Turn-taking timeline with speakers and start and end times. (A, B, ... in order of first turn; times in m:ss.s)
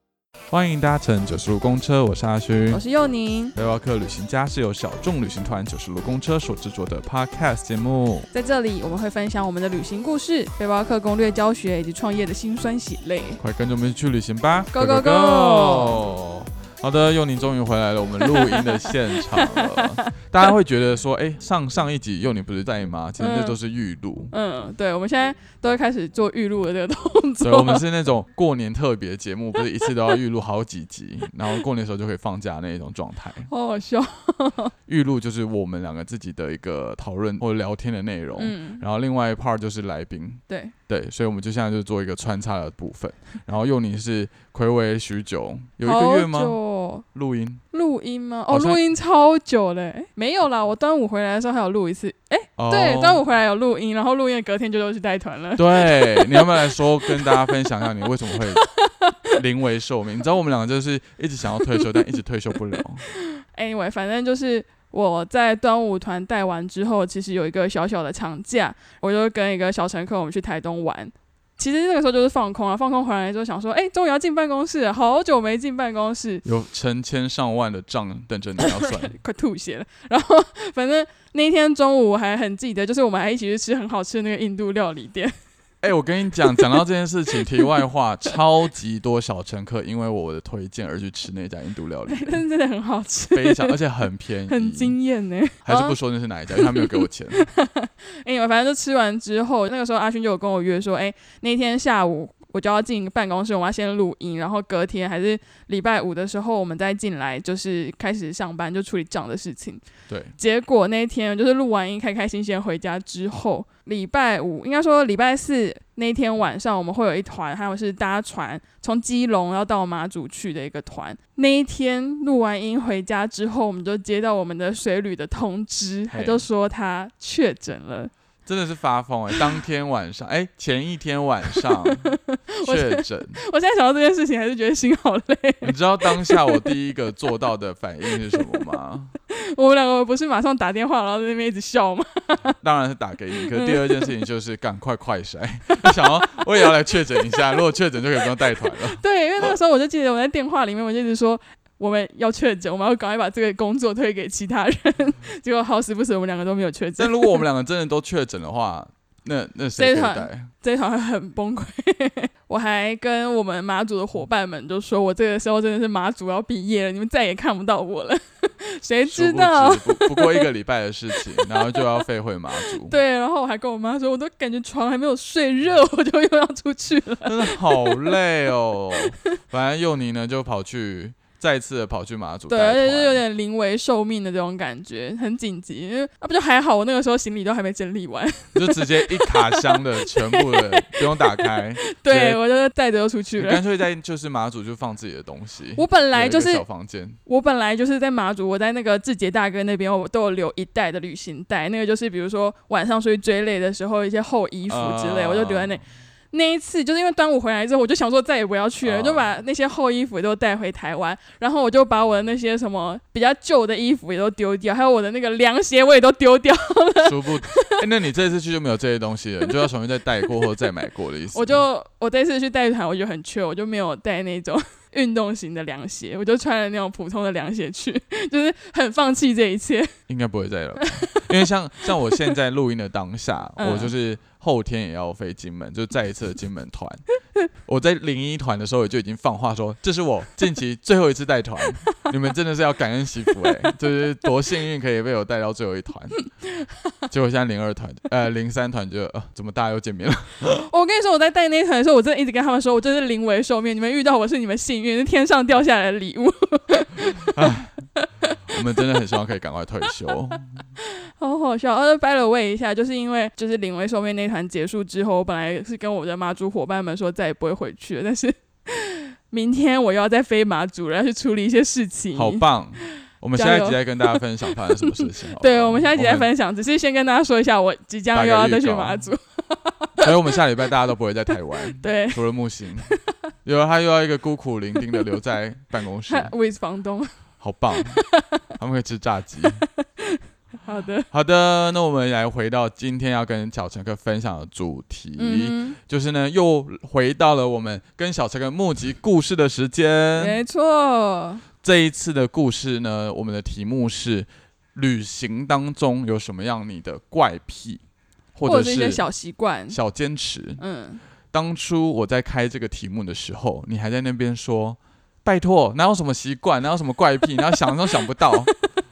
0:00.5-0:02.8 A
0:02.7-0:03.5 B
0:03.5-0:08.3 A
0:08.3-0:13.4 B
0:13.4-0:24.3 A
0:14.7-0:16.0 B
0:18.2-0:20.1 B
0:23.2-0:23.6 B
0:24.3-0:27.8 B
0:27.4-0:33.5 A
0:33.5-0:34.7 B
0:34.9-0:46.6 A
0:38.4-0:38.8 B
0:40.5-0:40.7 B
0:45.8-0:47.0 B
0:47.1-0:47.6 A
0:47.7-0:57.7 B
0:48.5-0:48.8 A
0:52.6-0:53.2 A
0:55.6-0:58.7 A
0:58.3-0:59.4 B
0:59.3-1:03.0 A
1:01.6-1:02.0 B
1:03.1-1:16.4 B
1:16.4-1:19.1 A
1:18.6-1:25.3 B
1:25.8-1:32.4 A
1:32.1-1:33.7 B
1:33.3-1:35.0 A
1:34.5-1:36.0 B
1:35.6-1:37.5 A
1:36.5-1:49.8 B
1:50.1-1:50.3 A
1:50.4-2:08.1 B
2:06.1-2:06.4 A
2:08.4-2:13.4 A
2:11.5-2:16.7 B
2:15.6-2:19.1 A
2:18.1-2:18.6 B
2:19.3-2:22.6 B
2:22.6-2:29.0 A
2:23.4-2:24.1 B
2:25.8-2:26.6 B
2:27.3-2:27.6 B
2:28.6-2:37.4 B
2:37.0-2:40.5 A
2:39.8-2:50.5 B
2:49.0-2:52.9 A
2:51.2-2:52.0 B
2:52.7-2:58.2 B
2:57.2-3:03.2 A
3:02.5-3:13.6 B
3:08.5-3:12.4 A
3:13.4-3:17.2 A
3:15.8-3:16.6 B
3:17.3-3:37.8 B
3:24.7-3:25.8 A
3:28.8-3:29.3 A
3:37.0-3:41.6 A
3:41.3-3:49.9 B
3:50.1-3:57.0 A
3:51.0-3:51.3 B
3:51.8-3:52.3 B
3:53.6-3:53.9 B
3:57.6-4:06.2 A
4:06.3-4:06.9 B
4:07.1-4:10.6 A
4:10.5-4:17.3 B
4:17.1-4:17.8 A
4:18.0-4:18.6 B
4:18.5-4:20.5 A
4:20.8-4:32.4 B
4:32.1-4:36.3 A
4:33.3-4:40.4 B
4:38.1-4:39.1 A
4:40.0-4:42.9 A
4:41.8-4:42.2 B
4:43.4-4:46.3 A
4:46.1-4:47.1 B
4:47.4-4:48.0 A
4:47.7-4:48.5 B
4:48.6-4:49.6 A
4:49.6-4:51.1 B
4:51.1-5:00.4 A
4:55.2-4:55.8 B
5:00.2-5:01.4 B
5:01.6-5:07.8 A
5:08.3-5:09.0 A
5:08.4-5:09.8 B
5:09.7-5:10.6 A
5:10.6-5:11.0 B
5:11.3-5:18.5 A